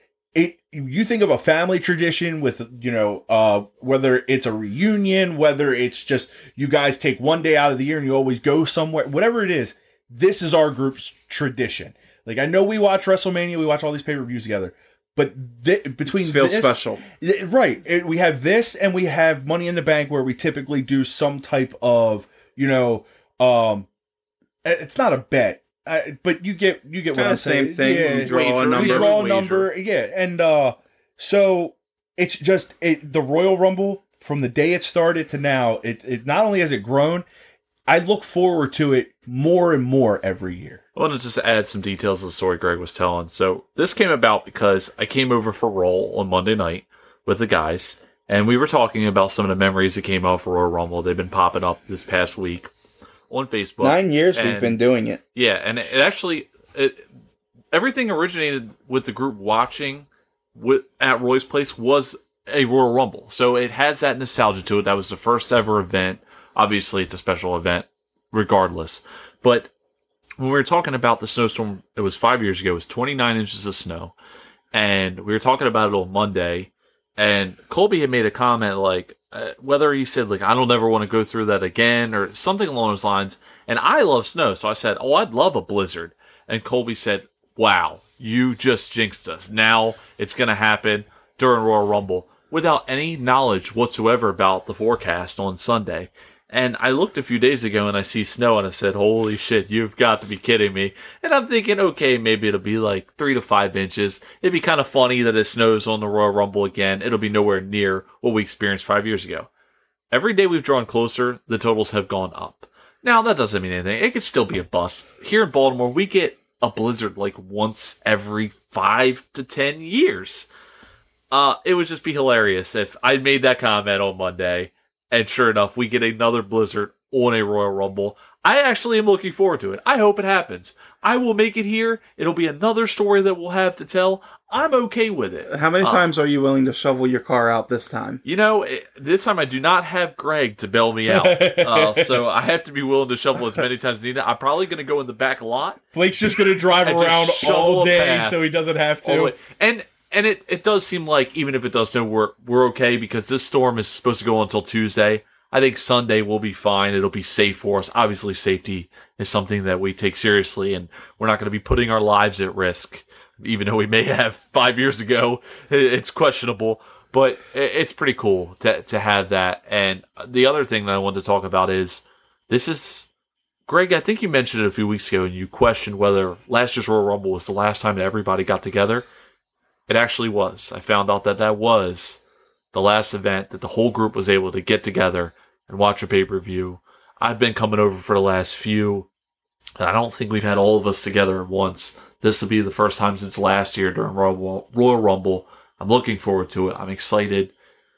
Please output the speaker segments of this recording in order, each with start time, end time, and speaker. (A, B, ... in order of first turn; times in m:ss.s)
0:00.3-0:23.9 A
0:16.0-0:17.0 B
0:24.6-0:37.2 A
0:27.1-0:29.2 B
0:27.8-0:29.7 C
0:37.9-0:40.8 A
0:40.9-0:52.7 C
0:53.3-0:54.8 C
0:53.8-0:55.2 B
0:55.3-0:57.0 C
0:57.7-1:09.7 C
1:10.4-1:14.1 C
1:14.7-1:49.5 C
1:50.1-2:00.5 C
2:01.3-2:16.0 C
2:15.5-2:18.2 B
2:18.2-2:25.8 C
2:21.1-2:22.2 A
2:25.9-2:29.3 A
2:26.8-2:28.4 C
2:29.0-2:53.1 C
2:53.7-2:59.0 C
2:59.9-3:02.2 C
3:02.7-3:09.1 C
3:09.8-3:17.5 C